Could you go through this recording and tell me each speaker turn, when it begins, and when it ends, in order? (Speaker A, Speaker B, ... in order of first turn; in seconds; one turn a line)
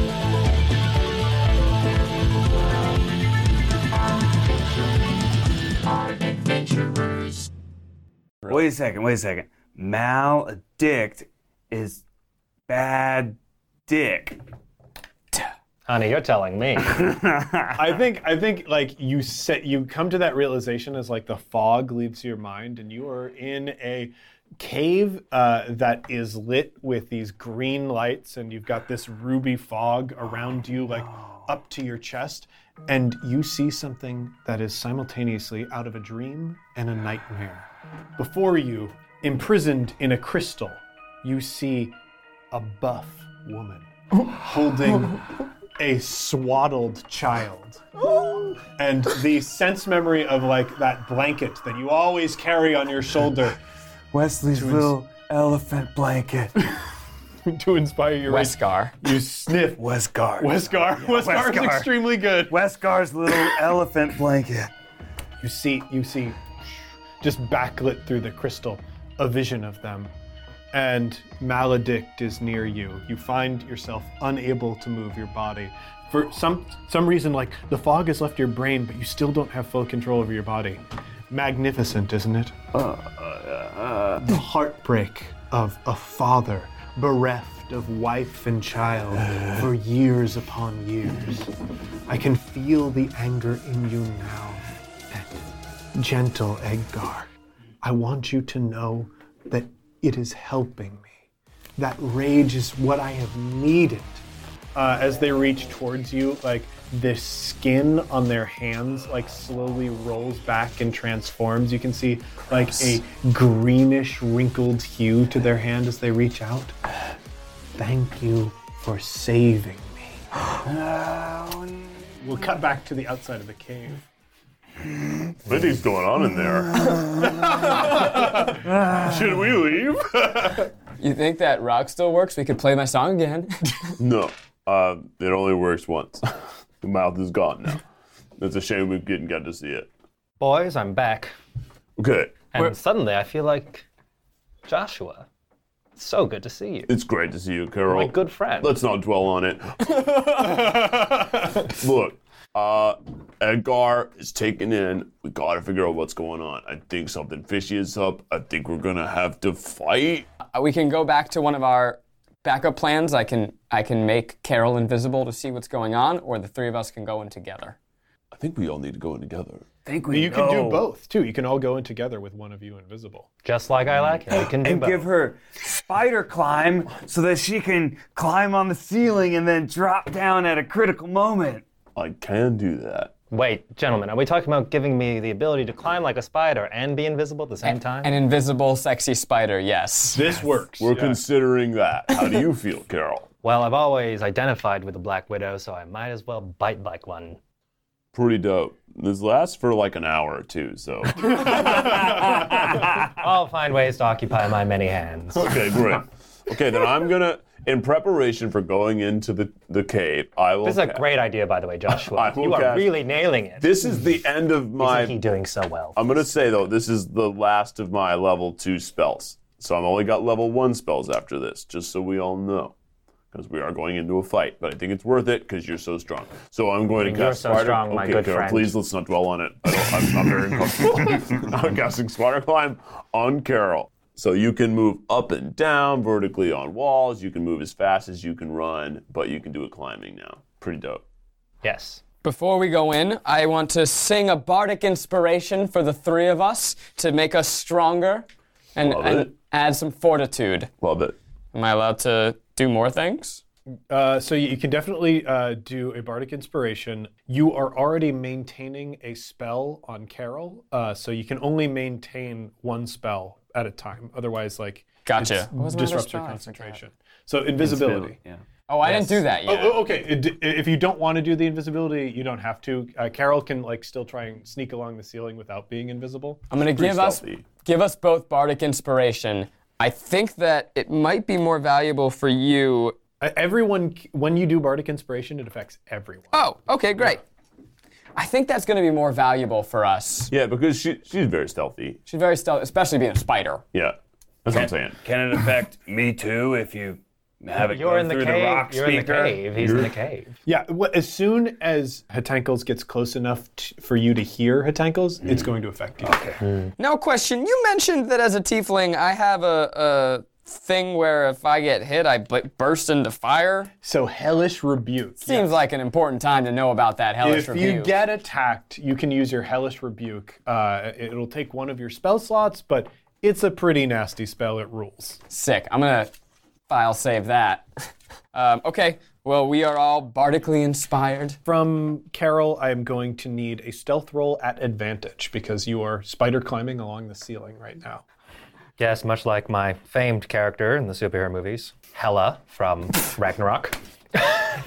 Speaker A: 8.5-12.0
Speaker A: 12.7-14.4
Speaker B: 15.9-17.1
Speaker A: 16.9-17.7
Speaker C: 17.7-42.0
Speaker C: 42.5-47.9
Speaker C: 48.5-53.6
Speaker A: 54.1-56.6
Speaker C: 54.5-54.9
Speaker C: 57.5-59.9
Speaker D: 58.2-58.9
Speaker A: 59.8-64.7
Speaker C: 60.4-62.6
Speaker C: 65.4-70.1
Speaker C: 70.7-82.6
Speaker A: 82.7-84.2
Speaker C: 84.2-91.5
Speaker C: 92.1-97.3
Speaker C: 97.8-101.1
Speaker C: 101.8-116.8
Speaker C: 117.8-120.2
Speaker A: 120.6-122.6
Speaker C: 122.2-124.0
Speaker E: 125.5-127.0
Speaker A: 126.7-127.9
Speaker E: 127.6-128.3
Speaker C: 128.0-128.5
Speaker A: 128.5-129.4
Speaker E: 129.0-130.6
Speaker D: 131.0-133.7
Speaker E: 134.0-136.2
Speaker E: 136.8-137.8
Speaker E: 138.4-139.9
Speaker B: 140.4-141.3
Speaker E: 142.0-142.5
Speaker B: 142.5-143.9
Speaker B: 144.7-145.3
Speaker B: 145.9-146.9
Speaker E: 146.9-160.3
Speaker B: 147.9-148.8
Speaker D: 160.5-167.8
Speaker E: 168.3-169.7
Speaker A: 169.8-170.9
Speaker C: 170.1-173.3
Speaker B: 173.4-175.1
Speaker A: 174.3-181.6
Speaker E: 181.9-183.1
Speaker B: 183.3-188.1
Speaker D: 187.6-190.4
Speaker C: 190.1-191.2
Speaker E: 190.8-193.3
Speaker B: 193.4-197.4
Speaker E: 198.1-203.1
Speaker B: 203.0-205.6
Speaker E: 205.3-211.0
Speaker B: 210.6-213.8
Speaker E: 211.9-212.9
Speaker E: 213.6-215.2
Speaker B: 214.8-216.0
Speaker E: 215.9-222.7
Speaker E: 223.3-241.0
Speaker B: 227.0-228.8
Speaker B: 241.6-242.0
Speaker D: 242.2-248.2
Speaker D: 248.8-250.7
Speaker E: 248.8-249.3
Speaker E: 250.8-251.2
Speaker D: 251.5-253.4
Speaker C: 253.9-268.2
Speaker D: 265.1-266.8
Speaker A: 267.6-268.4
Speaker D: 268.7-269.8
Speaker C: 268.9-276.4
Speaker D: 276.5-282.9
Speaker E: 276.7-277.4
Speaker C: 283.2-286.4
Speaker D: 286.3-287.2
Speaker D: 288.1-290.3
Speaker E: 290.3-292.0
Speaker D: 292.1-293.6
Speaker E: 293.7-295.0
Speaker A: 295.0-299.6
Speaker B: 297.6-300.4
Speaker E: 299.6-299.9
Speaker C: 300.4-306.2
Speaker A: 306.0-306.4
Speaker D: 306.8-313.7
Speaker C: 313.8-315.6
Speaker D: 315.2-318.0
Speaker C: 317.2-325.2
Speaker D: 325.3-326.1
Speaker D: 326.7-327.6
Speaker D: 328.3-331.4
Speaker C: 331.4-338.0
Speaker B: 338.8-343.8